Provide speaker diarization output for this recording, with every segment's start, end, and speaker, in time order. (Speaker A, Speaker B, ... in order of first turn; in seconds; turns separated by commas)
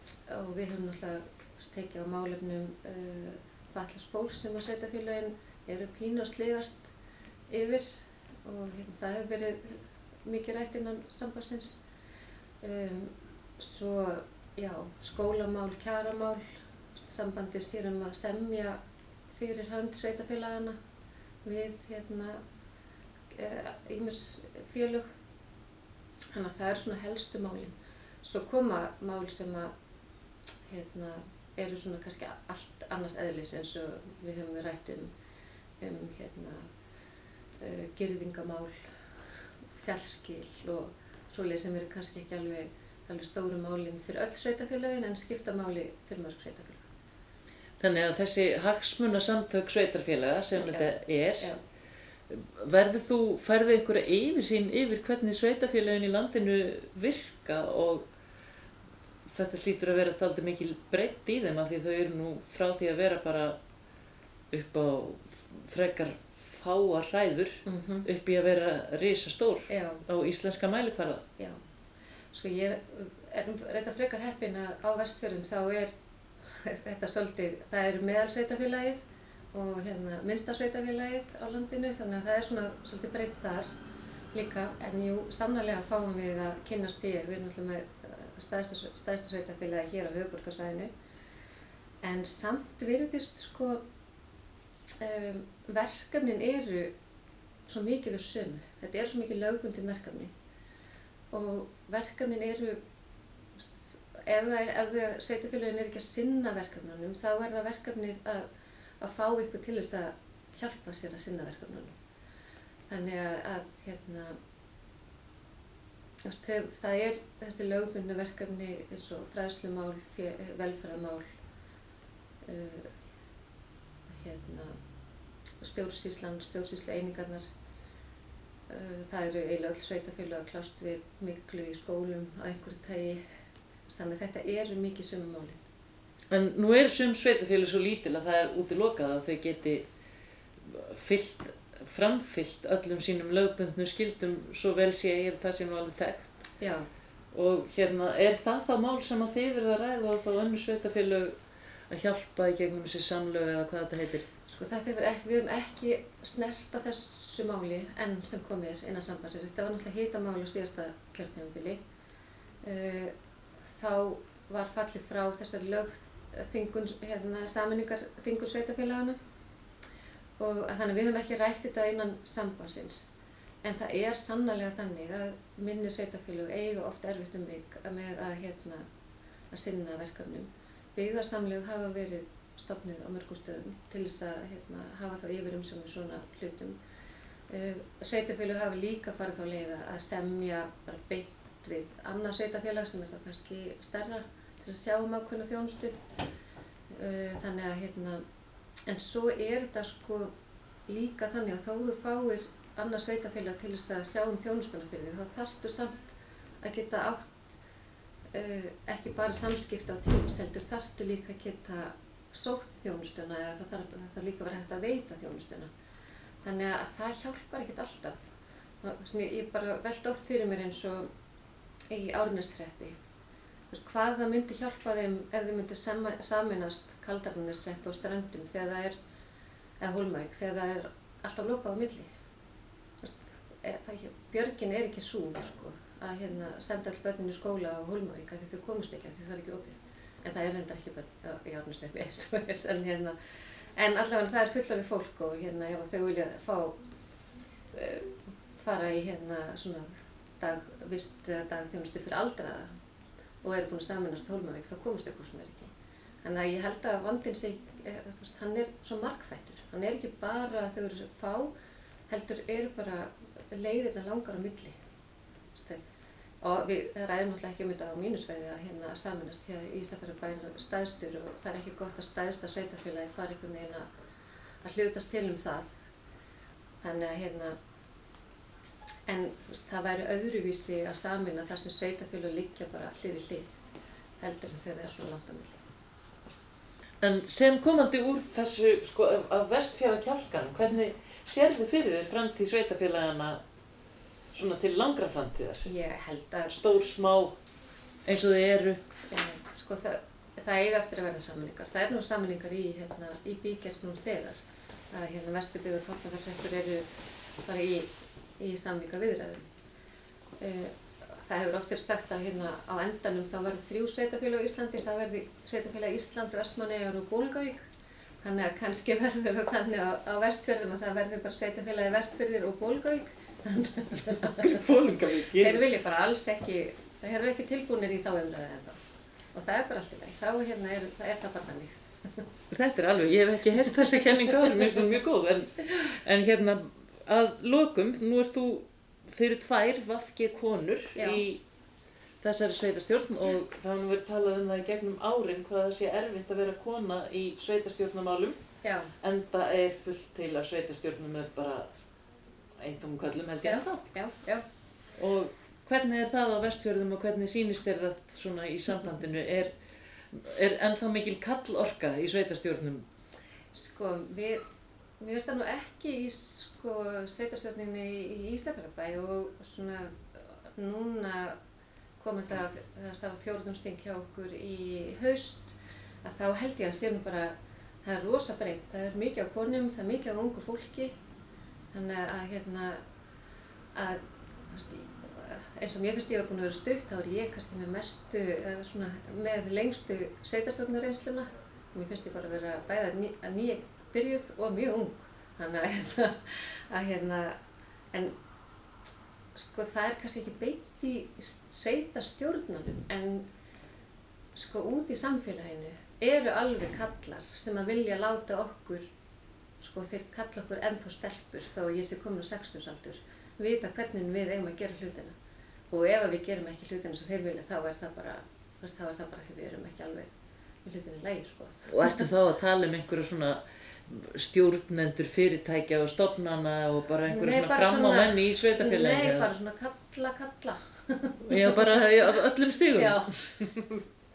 Speaker A: 0.3-6.9, Speaker A: 7.5-11.8, Speaker A: 12.6-18.8, Speaker A: 19.3-20.8, Speaker A: 21.4-22.4, Speaker A: 23.3-25.1, Speaker A: 26.3-29.7, Speaker A: 30.7-35.1, Speaker A: 35.8-36.6, Speaker A: 37.6-38.9, Speaker A: 39.8-46.9, Speaker B: 47.8-51.5, Speaker A: 50.6-51.6, Speaker B: 52.3-58.0, Speaker B: 59.2-63.6, Speaker B: 64.5-71.2, Speaker A: 67.6-68.0, Speaker A: 69.7-70.0, Speaker A: 72.3-75.9, Speaker A: 76.5-79.0, Speaker A: 79.5-83.7, Speaker A: 84.3-90.9, Speaker A: 92.0-93.8, Speaker A: 95.0-96.9, Speaker A: 97.7-100.3, Speaker A: 101.3-102.8, Speaker A: 103.5-108.5, Speaker A: 109.0-112.0, Speaker A: 112.9-114.4, Speaker A: 116.2-121.3, Speaker A: 122.4-122.9, Speaker A: 124.1-124.8, Speaker A: 125.6-127.4, Speaker A: 128.7-133.2, Speaker A: 133.9-135.6, Speaker B: 136.3-139.9, Speaker B: 140.6-146.5, Speaker A: 146.6-146.9, Speaker B: 147.3-151.4, Speaker B: 151.9-154.3, Speaker A: 154.5-161.8, Speaker A: 162.6-163.1, Speaker A: 163.8-169.2, Speaker A: 170.4-173.1, Speaker A: 173.6-178.8, Speaker A: 179.5-186.8, Speaker A: 187.5-196.0, Speaker A: 196.9-198.2, Speaker A: 198.9-200.3, Speaker A: 200.9-207.6, Speaker A: 208.3-215.7, Speaker A: 216.4-218.2, Speaker A: 218.8-221.1, Speaker A: 221.9-222.9, Speaker A: 223.7-228.9, Speaker A: 229.8-232.1, Speaker A: 233.0-243.1, Speaker A: 243.7-246.8, Speaker A: 247.7-252.7, Speaker A: 253.4-255.7, Speaker A: 256.2-261.5, Speaker A: 262.1-264.8, Speaker A: 265.5-265.8, Speaker A: 266.4-273.9, Speaker A: 274.6-275.8, Speaker A: 276.8-277.6, Speaker A: 279.1-283.6, Speaker A: 284.2-285.6, Speaker B: 287.0-293.4, Speaker B: 294.3-295.7, Speaker A: 295.6-296.5, Speaker B: 296.5-297.4, Speaker B: 298.1-298.8, Speaker A: 299.1-304.4, Speaker A: 304.9-306.9, Speaker A: 307.4-309.4, Speaker A: 310.4-317.6, Speaker A: 318.2-324.6, Speaker B: 324.2-325.6, Speaker A: 325.3-328.8, Speaker A: 329.3-332.2, Speaker B: 332.5-341.4, Speaker A: 340.9-341.2, Speaker B: 342.2-348.4, Speaker A: 348.6-348.9, Speaker B: 349.0-351.7, Speaker B: 352.6-353.8, Speaker A: 353.4-354.4, Speaker B: 355.0-359.5, Speaker B: 360.1-362.9, Speaker A: 363.5-364.4, Speaker A: 365.0-371.4, Speaker A: 372.0-380.9, Speaker A: 381.7-382.8, Speaker A: 383.7-397.4, Speaker A: 399.3-403.3, Speaker A: 404.3-408.9, Speaker A: 409.6-415.1, Speaker A: 415.7-420.1, Speaker A: 420.6-422.1, Speaker B: 421.7-429.3, Speaker A: 427.1-432.2, Speaker B: 431.3-433.1, Speaker A: 432.8-433.8